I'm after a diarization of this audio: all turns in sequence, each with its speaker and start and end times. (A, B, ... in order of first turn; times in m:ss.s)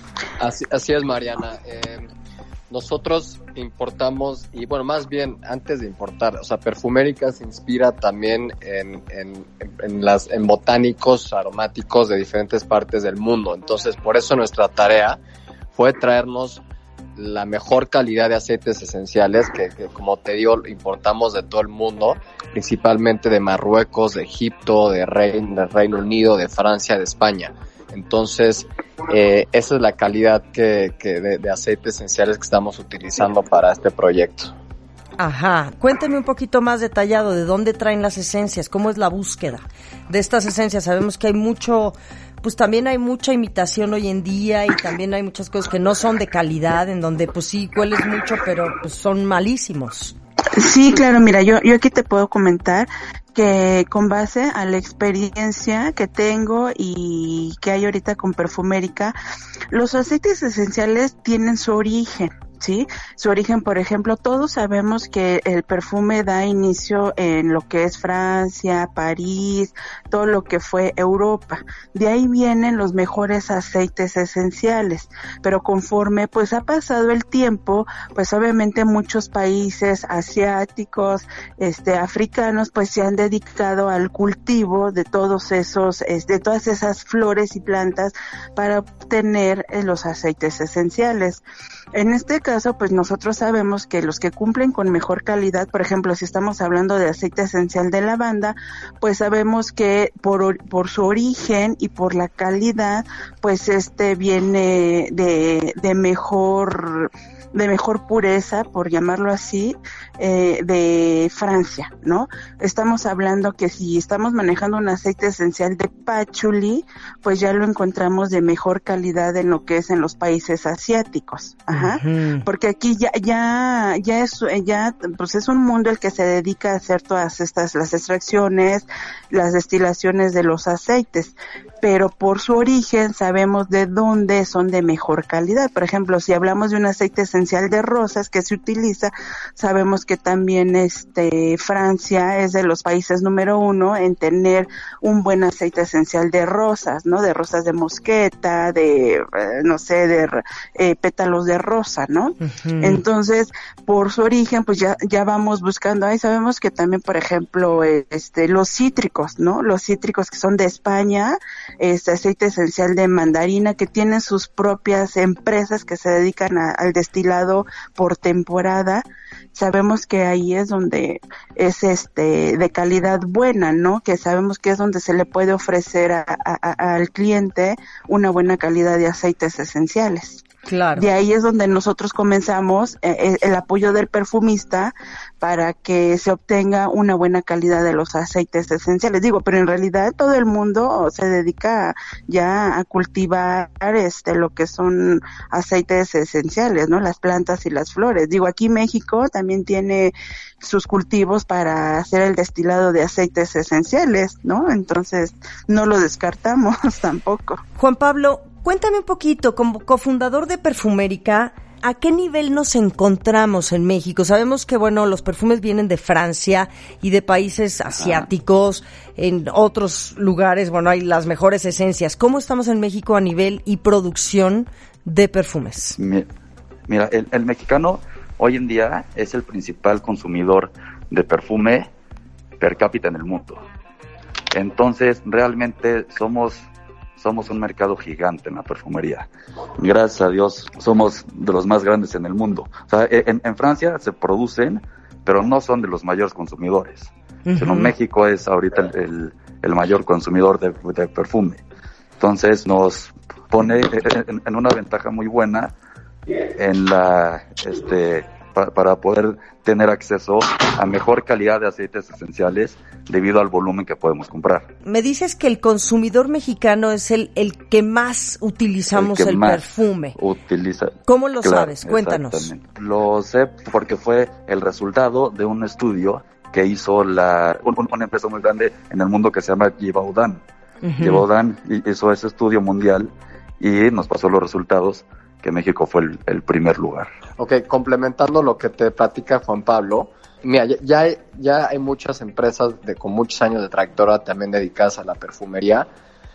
0:00.4-0:02.1 A
0:02.7-0:15.2 A
0:15.7-0:16.6 A
0:17.2-0:34.5 A
0:35.2-0:50.1 B
0:50.6-0:59.2 C
0:59.7-1:31.4 C
1:31.9-3:00.4 C
2:01.7-2:02.4 B
2:32.4-2:33.0 B
3:00.6-3:01.1 B
3:01.0-3:27.6 C
3:27.8-3:46.0 B
3:46.0-3:46.3 D
3:46.9-3:51.9 D
3:52.6-3:53.6 D
3:54.5-4:11.6 D
4:07.5-4:07.9 B
4:12.2-4:15.7 D
4:16.6-4:24.7 D
4:24.8-4:30.2 B
4:28.9-4:40.4 D
4:31.0-4:32.5 B
4:40.8-4:41.2 B
4:41.0-4:47.1 D
4:47.4-4:55.9 A